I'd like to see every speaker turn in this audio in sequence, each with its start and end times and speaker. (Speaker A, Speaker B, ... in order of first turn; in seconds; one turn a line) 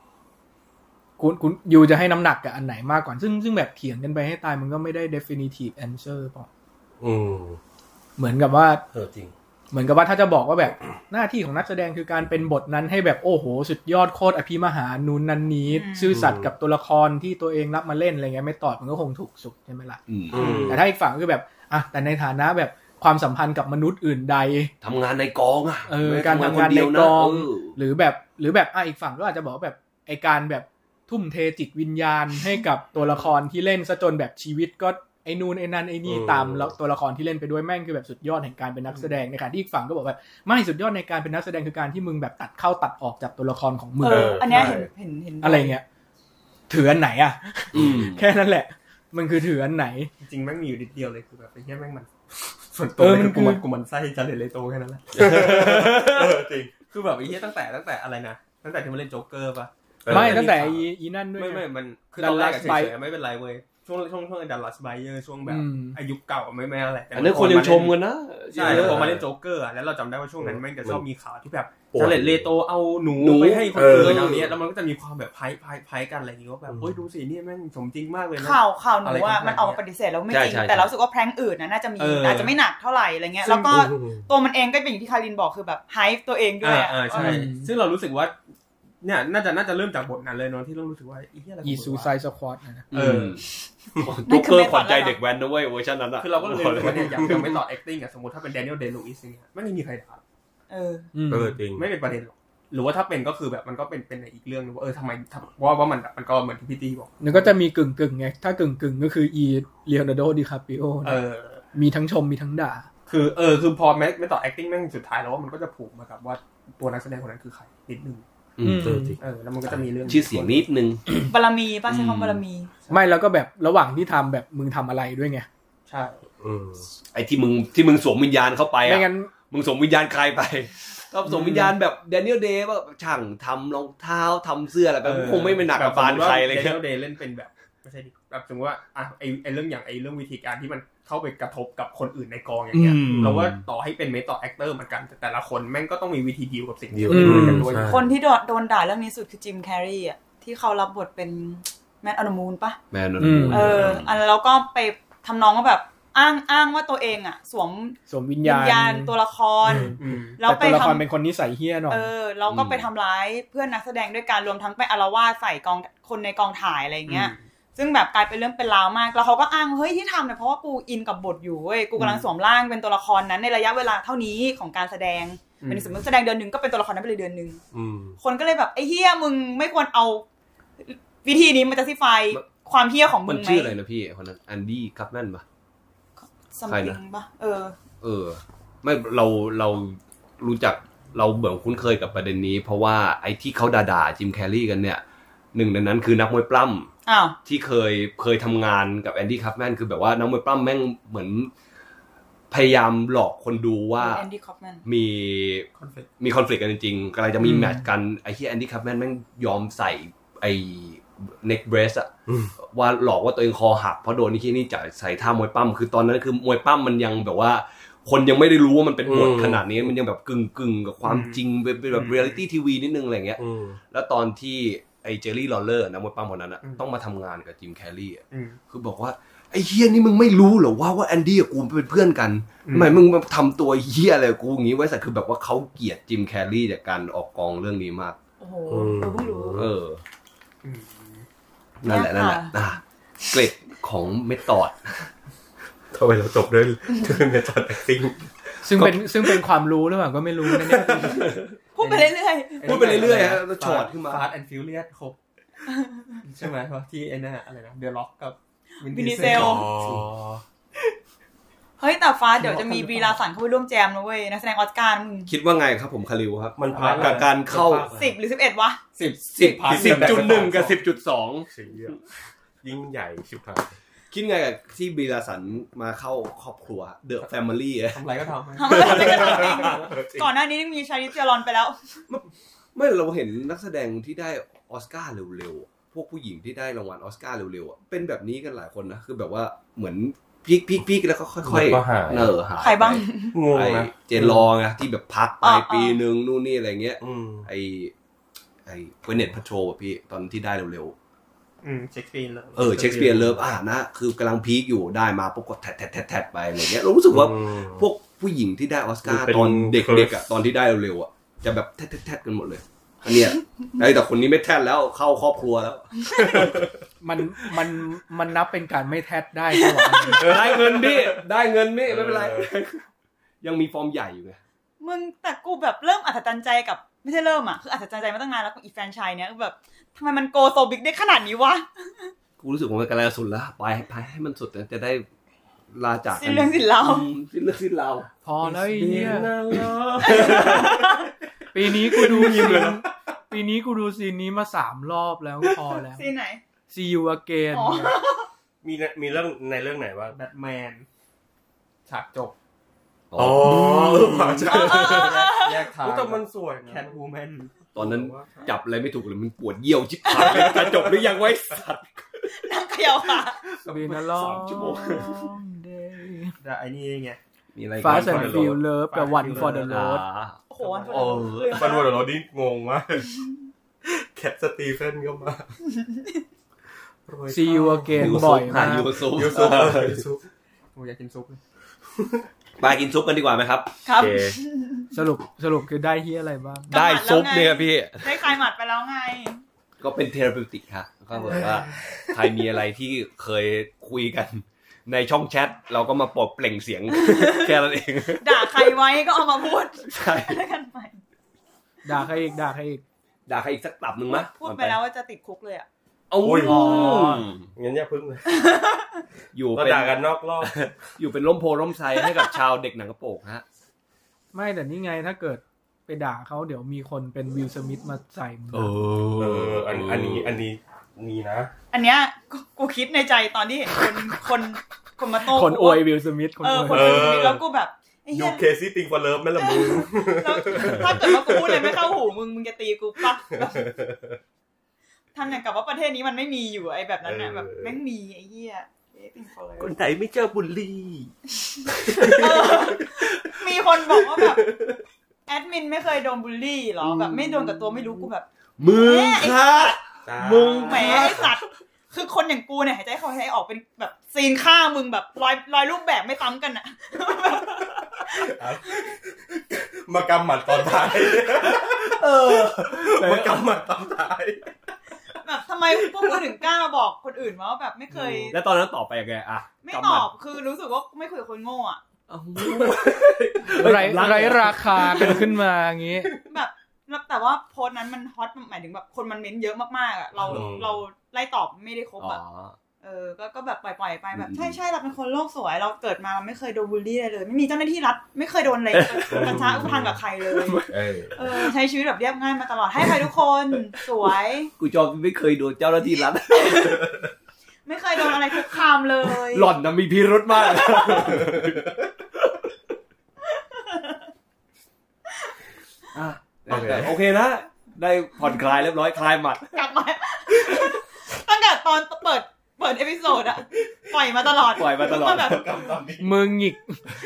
Speaker A: 1.2-6.5
Speaker B: 7.0-7.6
Speaker A: 8.2-8.8
Speaker B: 8.9-9.3
Speaker A: 9.7-20.0
Speaker C: 15.7-16.2
Speaker B: 16.1-16.5
Speaker D: 20.1-20.6
Speaker B: 20.3-20.8
Speaker E: 20.3-20.8
Speaker A: 20.6-24.7
Speaker D: 24.8-27.8
Speaker A: 25.9-44.8
Speaker B: 36.0-36.7
Speaker C: 44.0-45.8
Speaker B: 44.1-44.9
Speaker A: 45.4-45.9
Speaker A: 46.7-50.1
Speaker D: 47.7-48.2
Speaker E: 50.2-52.1
Speaker E: 52.7-56.1
Speaker A: 53.0-53.6
Speaker B: 55.2-56.7
Speaker D: 55.2-56.3
Speaker E: 56.9-68.0
Speaker B: 60.0-60.6
Speaker A: 60.1-62.9
Speaker A: 65.5-66.0
Speaker D: 67.1-69.1
Speaker E: 68.5-79.8
Speaker B: 68.6-69.2
Speaker B: 70.4-71.0
Speaker B: 71.9-72.5
Speaker D: 73.2-74.5
Speaker B: 73.7-74.5
Speaker B: 76.7-77.0
Speaker C: 78.4-87.5
Speaker D: 80.3-80.9
Speaker E: 82.0-82.6
Speaker B: 83.7-84.3
Speaker E: 86.6-88.4
Speaker A: 87.1-87.7
Speaker E: 89.0-92.1
Speaker A: 91.6-92.9
Speaker E: 92.9-93.4
Speaker D: 92.9-93.5
Speaker D: 94.0-97.5
Speaker C: 94.2-95.2
Speaker E: 96.2-100.2
Speaker B: 96.5-97.5
Speaker C: 100.7-101.1
Speaker A: 101.1-101.6
Speaker B: 101.3-101.9
Speaker E: 101.7-107.5
Speaker A: 107.2-112.9
Speaker E: 111.0-111.6
Speaker E: 113.1-118.2
Speaker D: 118.6-119.0
Speaker A: 118.6-119.2
Speaker B: 118.7-119.2
Speaker E: 119.2-120.7
Speaker D: 120.1-121.3
Speaker C: 121.2-122.7
Speaker D: 121.9-122.4
Speaker A: 122.9-125.5
Speaker E: 125.9-126.3
Speaker B: 126.4-126.9
Speaker D: 127.1-136.8
Speaker A: 128.8-129.3
Speaker A: 131.3-131.7
Speaker E: 135.0-148.1
Speaker D: 142.7-143.6
Speaker B: 143.1-143.6
Speaker B: 146.9-148.1
Speaker A: 147.1-147.7
Speaker C: 147.7-152.8
Speaker D: 152.9-154.2
Speaker A: 153.2-153.8
Speaker C: 153.5-161.1
Speaker A: 158.1-159.2
Speaker A: 159.7-162.1
Speaker E: 159.9-160.4
Speaker C: 161.9-177.6
Speaker D: 162.5-162.9
Speaker E: 167.1-167.4
Speaker E: 175.6-176.0
Speaker B: 177.7-178.2
Speaker C: 178.2-180.2
Speaker C: 180.8-183.8
Speaker D: 183.2-185.4
Speaker C: 186.2-187.8
Speaker D: 186.7-187.0
Speaker D: 188.0-195.0
Speaker D: 195.5-196.9
Speaker C: 197.1-197.4
Speaker D: 197.4-201.5
Speaker D: 202.5-204.3
Speaker C: 204.0-204.8
Speaker D: 204.9-238.2
Speaker E: 205.8-206.1
Speaker A: 207.4-207.8
Speaker B: 219.0-219.9
Speaker E: 221.1-221.4
Speaker E: 221.9-222.4
Speaker B: 223.4-223.8
Speaker E: 228.3-228.6
Speaker E: 232.7-233.0
Speaker C: 238.4-239.6
Speaker B: 238.7-239.7
Speaker D: 239.5-240.0
Speaker E: 240.6-241.3
Speaker D: 241.8-245.1
Speaker C: 241.9-242.6
Speaker B: 245.9-249.0
Speaker A: 248.6-251.3
Speaker B: 250.5-251.3
Speaker C: 251.8-253.0
Speaker E: 251.8-255.2
Speaker D: 252.6-254.3
Speaker C: 255.7-256.2
Speaker E: 256.2-260.0
Speaker C: 258.9-259.7
Speaker B: 259.2-260.4
Speaker C: 261.8-265.3
Speaker E: 262.4-263.2
Speaker D: 265.3-267.9
Speaker B: 266.6-268.2
Speaker E: 266.7-267.4
Speaker C: 267.9-268.8
Speaker E: 268.9-270.8
Speaker D: 269.4-271.5
Speaker B: 269.7-270.6
Speaker B: 271.5-272.0
Speaker B: 272.6-273.8
Speaker D: 274.1-278.0
Speaker E: 277.9-279.9
Speaker C: 278.6-282.0
Speaker B: 278.8-280.3
Speaker D: 278.8-279.6
Speaker D: 282.1-297.9
Speaker B: 291.4-292.4
Speaker C: 292.6-293.4
Speaker B: 293.3-293.9
Speaker C: 295.4-296.0
Speaker B: 297.0-297.5
Speaker D: 298.7-300.9
Speaker E: 301.6-302.8
Speaker D: 302.6-316.6
Speaker B: 302.7-303.5
Speaker B: 307.1-307.9
Speaker B: 309.1-310.1
Speaker C: 316.1-316.5
Speaker B: 316.3-316.7
Speaker A: 317.0-320.3
Speaker C: 319.5-320.3
Speaker D: 320.0-322.8
Speaker B: 320.2-321.2
Speaker B: 321.9-322.5
Speaker D: 323.4-324.4
Speaker C: 324.8-332.1
Speaker D: 332.4-335.1
Speaker D: 335.7-338.1
Speaker C: 336.1-337.1
Speaker A: 338.2-339.4
Speaker B: 338.4-341.0
Speaker D: 339.5-340.7
Speaker C: 340.0-341.1
Speaker A: 341.5-346.1
Speaker B: 342.0-342.8
Speaker E: 342.2-342.6
Speaker C: 345.9-346.4
Speaker A: 346.7-348.0
Speaker C: 347.5-348.3
Speaker B: 348.6-350.2
Speaker E: 350.1-350.9
Speaker E: 351.9-352.4
Speaker D: 353.1-354.4
Speaker B: 353.2-356.9
Speaker E: 354.0-357.6
Speaker C: 354.4-355.6
Speaker B: 357.8-358.5
Speaker D: 357.8-362.5
Speaker C: 360.1-360.6
Speaker C: 362.3-363.4
Speaker D: 363.6-365.1
Speaker A: 363.7-366.4
Speaker E: 363.7-363.9
Speaker E: 366.4-367.2
Speaker D: 367.6-368.4
Speaker A: 367.8-370.1
Speaker B: 367.8-368.6
Speaker E: 367.9-369.8
Speaker B: 369.3-369.5
Speaker D: 369.7-371.8
Speaker C: 370.5-372.0
Speaker E: 370.6-371.3
Speaker B: 371.4-373.1
Speaker B: 373.8-375.5
Speaker C: 375.7-376.2
Speaker B: 377.1-378.2
Speaker A: 377.3-378.9
Speaker D: 377.9-380.0
Speaker B: 379.1-380.2
Speaker E: 380.8-381.4
Speaker D: 382.6-383.7
Speaker C: 383.9-384.9
Speaker B: 384.0-384.4
Speaker A: 384.9-386.7
Speaker C: 386.7-389.4
Speaker D: 386.7-388.4
Speaker D: 389.8-398.8
Speaker C: 391.1-391.4
Speaker C: 396.9-397.6
Speaker C: 398.2-401.0
Speaker D: 399.9-400.4
Speaker A: 401.9-402.8
Speaker D: 403.3-404.8
Speaker C: 404.1-405.7
Speaker D: 406.1-407.5
Speaker B: 406.2-406.9
Speaker C: 406.4-407.2
Speaker B: 407.6-408.4
Speaker C: 408.3-409.0
Speaker D: 409.3-413.4
Speaker B: 409.5-410.5
Speaker A: 414.3-418.7
Speaker D: 418.5-420.4
Speaker B: 419.2-421.5
Speaker C: 421.7-425.9
Speaker A: 425.3-427.2
Speaker C: 426.4-428.5
Speaker B: 426.7-427.4
Speaker B: 428.1-431.9
Speaker C: 429.4-433.7
Speaker B: 433.3-434.2
Speaker C: 435.1-439.8
Speaker B: 437.0-437.8
Speaker B: 439.6-441.1
Speaker C: 441.4-444.4
Speaker B: 441.7-444.8
Speaker C: 445.3-458.8
Speaker B: 446.9-447.5
Speaker D: 448.6-451.3
Speaker B: 450.1-451.3
Speaker B: 458.1-464.5
Speaker D: 461.1-463.4
Speaker C: 465.2-468.4
Speaker B: 465.9-466.3
Speaker B: 467.9-468.3
Speaker D: 468.3-470.1
Speaker C: 469.6-471.8
Speaker D: 472.1-475.2
Speaker B: 472.4-474.5
Speaker A: 473.5-476.1
Speaker C: 474.7-475.3
Speaker C: 476.3-482.2
Speaker B: 480.2-480.8
Speaker D: 482.0-482.6
Speaker C: 482.8-494.5
Speaker D: 484.1-484.6
Speaker D: 488.7-491.5
Speaker B: 489.1-490.0
Speaker B: 490.7-491.2
Speaker D: 494.6-497.0
Speaker C: 496.3-496.9
Speaker C: 497.6-499.5
Speaker D: 498.1-498.5
Speaker D: 499.1-502.4
Speaker C: 500.4-501.1
Speaker B: 501.0-501.6
Speaker C: 503.3-504.1
Speaker D: 505.9-509.6
Speaker B: 506.5-506.9
Speaker C: 509.5-515.7
Speaker D: 514.6-516.1
Speaker A: 516.0-516.8